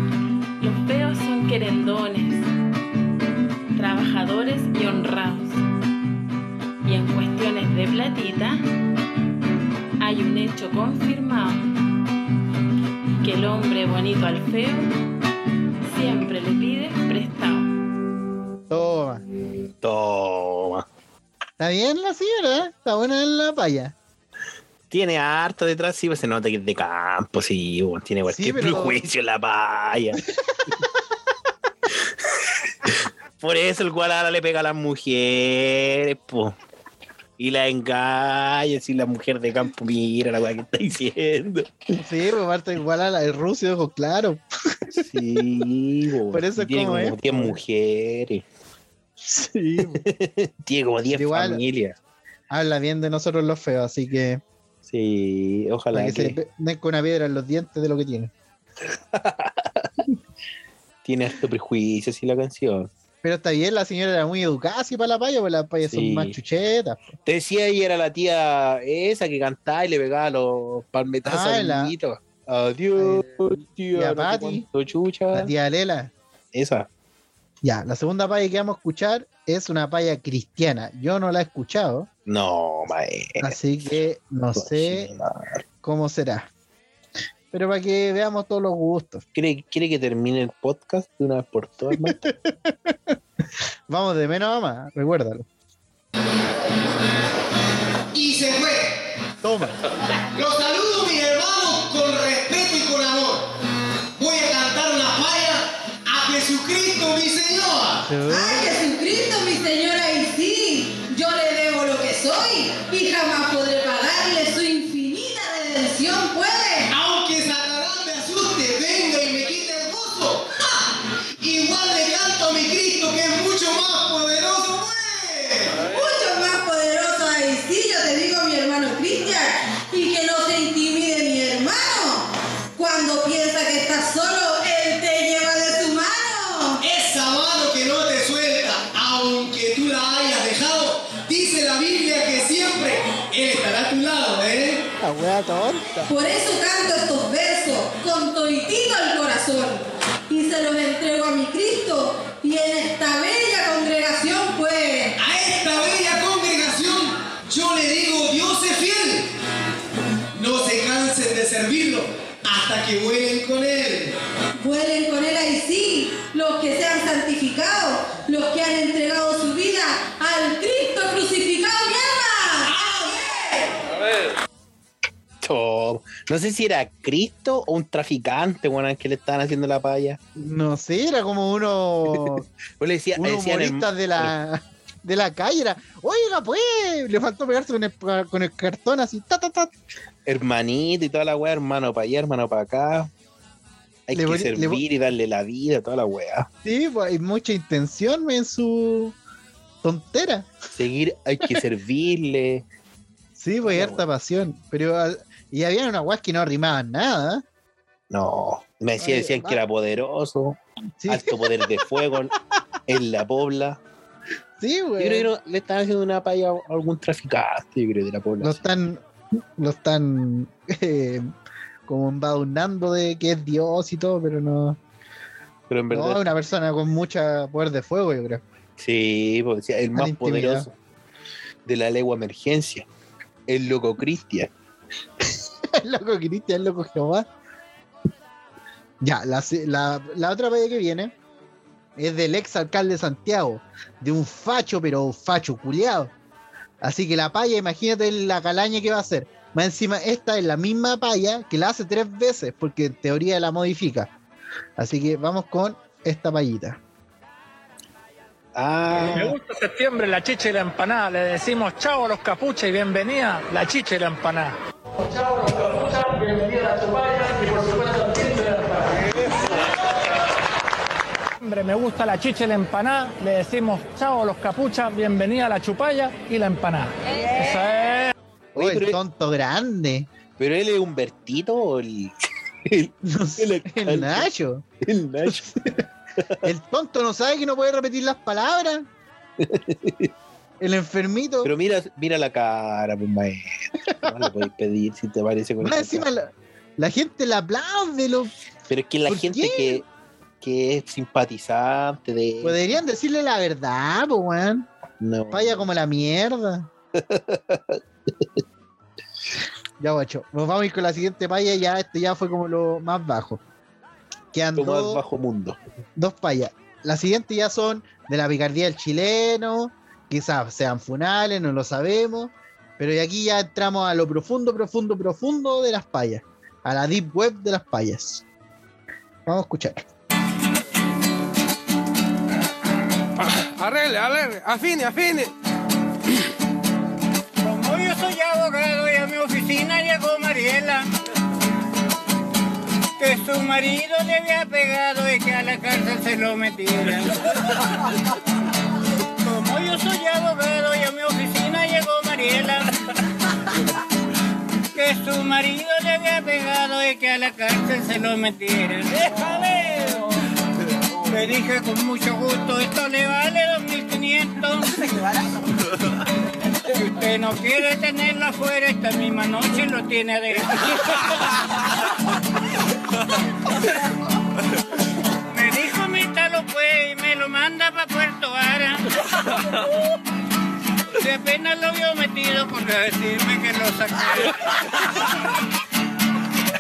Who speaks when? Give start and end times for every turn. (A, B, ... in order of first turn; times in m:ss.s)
0:00.6-0:02.5 A
0:03.8-0:05.6 A
0:06.8-0:08.6 A
0:10.0-0:11.6 A
0:13.2-0:14.9 A
0:15.9-0:17.7 A
0:18.7-0:19.2 B
0:19.8-0:20.8 C
0:21.6-0:24.0 B
0:24.9-0:30.3 C
0:28.3-0:29.0 B
0:32.9-0:36.6 C
0:37.4-0:41.8 C
0:42.0-0:44.4 B
0:44.9-0:48.4 C
0:46.3-0:47.6 B
0:49.2-0:50.0 B
0:50.0-0:52.0 C
0:51.1-0:51.6 B
0:52.5-0:54.4 B
0:54.9-0:56.4 C
0:55.9-0:58.3 B
0:59.1-0:59.9 C
1:01.0-1:02.9 C
1:03.2-1:07.1 B
1:05.9-1:06.4 C
1:07.2-1:15.5 C
1:11.2-1:12.0 B
1:13.0-1:13.3 B
1:13.9-1:14.6 B
1:15.3-1:16.1 B
1:16.5-1:16.9 C
1:17.6-1:22.1 B
1:22.3-1:23.6 C
1:23.4-1:25.1 B
1:24.6-1:25.6 C
1:25.8-1:26.5 B
1:27.5-1:29.2 B
1:29.4-1:32.2 C
1:31.9-1:33.1 B
1:33.9-1:35.5 B
1:38.1-1:39.0 D
1:39.4-1:39.8 B
1:40.3-1:43.4 D
1:44.2-1:48.1 D
1:48.0-1:48.7 B
1:48.3-1:56.9 E
1:56.9-2:05.9 D
2:05.8-2:16.8 E
2:16.8-2:24.8 D
2:25.0-2:26.1 B
2:26.1-2:35.1 E
2:35.2-2:39.3 D
2:40.3-2:44.2 D
2:44.6-2:53.5 E
2:55.4-3:00.2 C
3:00.4-3:02.4 B
3:02.8-3:04.3 C
3:03.2-3:09.7 B
3:10.3-3:13.1 C
3:14.1-3:16.5 C
3:14.1-3:14.8 B
3:16.6-3:19.2 B
3:19.8-3:20.5 B
3:20.7-3:22.6 C
3:23.4-3:27.4 B
3:23.6-3:24.0 C
3:28.1-3:32.3 C
3:29.0-3:29.6 B
3:31.0-3:31.9 B
3:32.9-3:33.8 C
3:34.6-3:35.3 B
3:35.0-3:38.6 C
3:38.4-3:41.3 B
3:41.9-3:44.8 B
3:45.7-3:46.3 C
3:45.9-3:48.4 B
3:48.8-3:50.8 C
3:49.9-3:50.7 B
3:51.7-3:52.9 C
3:53.5-3:54.5 C
3:55.7-3:57.3 B
3:59.0-4:01.1 B
4:02.0-4:06.1 B
4:06.8-4:14.1 B
4:14.8-4:16.8 B
4:18.6-4:19.4 C
4:19.1-4:29.4 F
4:31.4-4:38.1 F
4:38.6-4:39.0 C
4:38.6-4:40.1 B
4:40.4-4:42.1 C
4:42.7-4:44.3 C
4:43.0-4:44.7 B
4:44.8-4:46.5 C
4:46.4-4:48.9 B
4:49.4-4:50.1 C
4:50.6-4:51.5 B
4:51.4-4:56.1 C
4:55.6-4:58.3 B
4:58.7-4:59.9 C
4:59.1-4:59.8 B
5:00.4-5:02.8 C
5:02.4-5:04.7 B
5:05.0-5:05.7 C
5:05.3-5:06.7 B
5:07.0-5:08.3 C
5:09.8-5:13.4 B
5:14.3-5:15.0 B
5:14.6-5:15.6 C
5:16.0-5:28.2 B
5:29.3-5:29.9 B
5:33.2-5:35.3 G
5:37.4-5:40.9 H
5:43.0-5:47.6 H
5:49.2-5:52.7 H
5:54.7-6:00.1 H
6:01.1-6:04.9 H
6:06.6-6:11.6 H
6:15.3-6:19.7 H
6:21.0-6:24.6 H